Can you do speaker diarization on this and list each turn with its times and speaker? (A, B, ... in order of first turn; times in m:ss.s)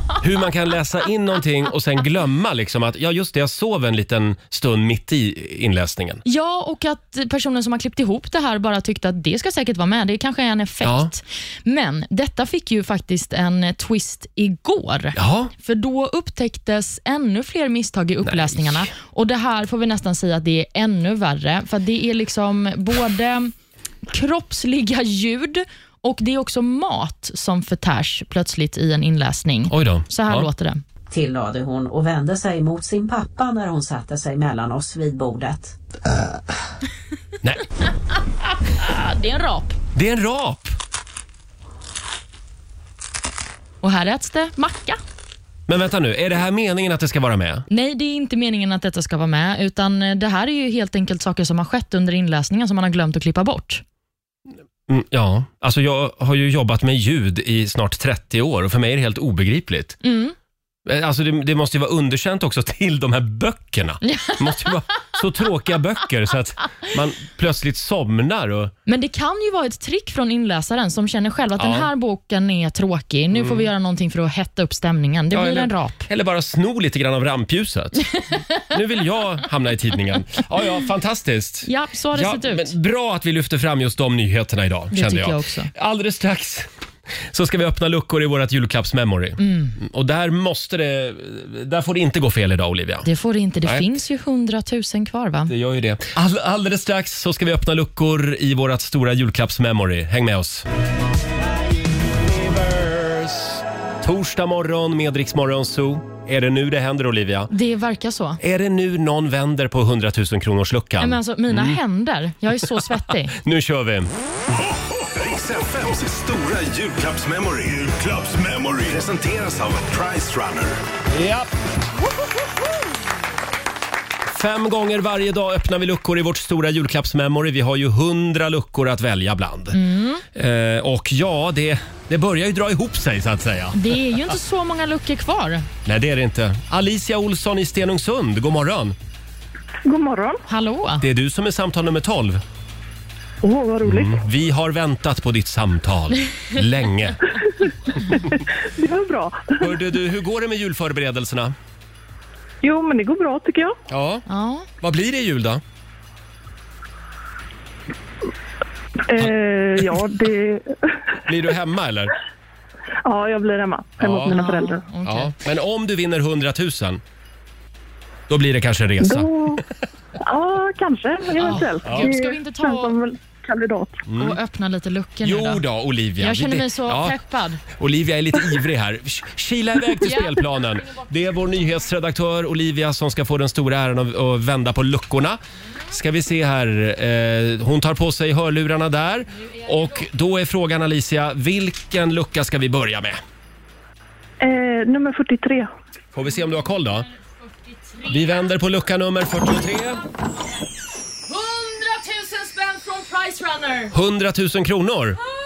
0:00.2-0:06.2 A
0:06.2-0:23.5 B
0:10.8-0:11.1 A
0:15.1-0:15.5 A
0:18.2-0:18.9 A
0:24.1-0:30.8 B
0:29.7-0:30.5 A
0:31.1-0:35.8 C
0:38.7-0:39.8 B
0:39.9-0:40.8 A
0:43.8-0:45.0 B
0:45.7-0:47.7 A
0:47.7-0:53.8 B
0:54.9-1:00.0 A
1:00.0-1:00.3 B
1:00.8-1:08.7 A
1:04.0-1:04.7 B
1:08.9-1:16.0 B
1:11.6-1:11.9 A
1:13.3-1:13.7 A
1:15.3-1:18.0 A
1:18.7-1:26.7 A
1:21.6-1:22.7 B
1:24.9-1:25.7 B
1:27.3-1:33.1 A
1:29.4-1:29.8 B
1:33.0-1:35.5 B
1:35.5-1:40.6 A
1:42.2-1:47.5 A
1:47.5-1:48.4 B
1:48.4-1:51.8 A
1:51.0-1:53.4 B
1:52.6-1:54.1 A
1:55.0-2:00.8 D
2:01.1-2:01.5 A
2:04.3-2:09.8 A
2:09.7-2:10.2 B
2:10.3-2:14.0 A
2:13.7-2:15.7 B
2:15.8-2:19.0 A
2:19.8-2:20.4 E
2:20.5-2:21.0 B
2:21.0-2:22.4 A
2:23.4-2:24.2 E
2:23.8-2:27.2 A
2:27.6-2:29.6 E
2:29.6-2:31.5 A
2:32.6-2:33.7 E
2:33.9-2:34.2 A
2:34.3-2:34.7 B
2:34.8-2:35.6 A
2:39.1-2:40.7 E
2:41.2-2:42.1 A
2:43.0-2:44.8 E
2:44.0-2:44.3 A
2:44.3-2:45.3 B
2:45.0-2:47.0 A
2:48.3-2:49.6 A
2:49.0-2:49.6 E
2:50.2-2:54.0 E
2:51.4-2:53.0 B
2:51.8-2:52.1 A
2:54.1-2:54.4 A
2:54.2-2:55.6 B
2:55.2-2:57.2 A
2:56.2-2:57.6 B
2:57.7-3:13.2 A
3:00.0-3:00.3 B
3:14.4-3:15.7 E
3:16.1-3:17.1 A
3:17.9-3:18.2 B
3:18.1-3:20.0 A
3:21.3-3:23.9 B
3:23.9-3:25.2 A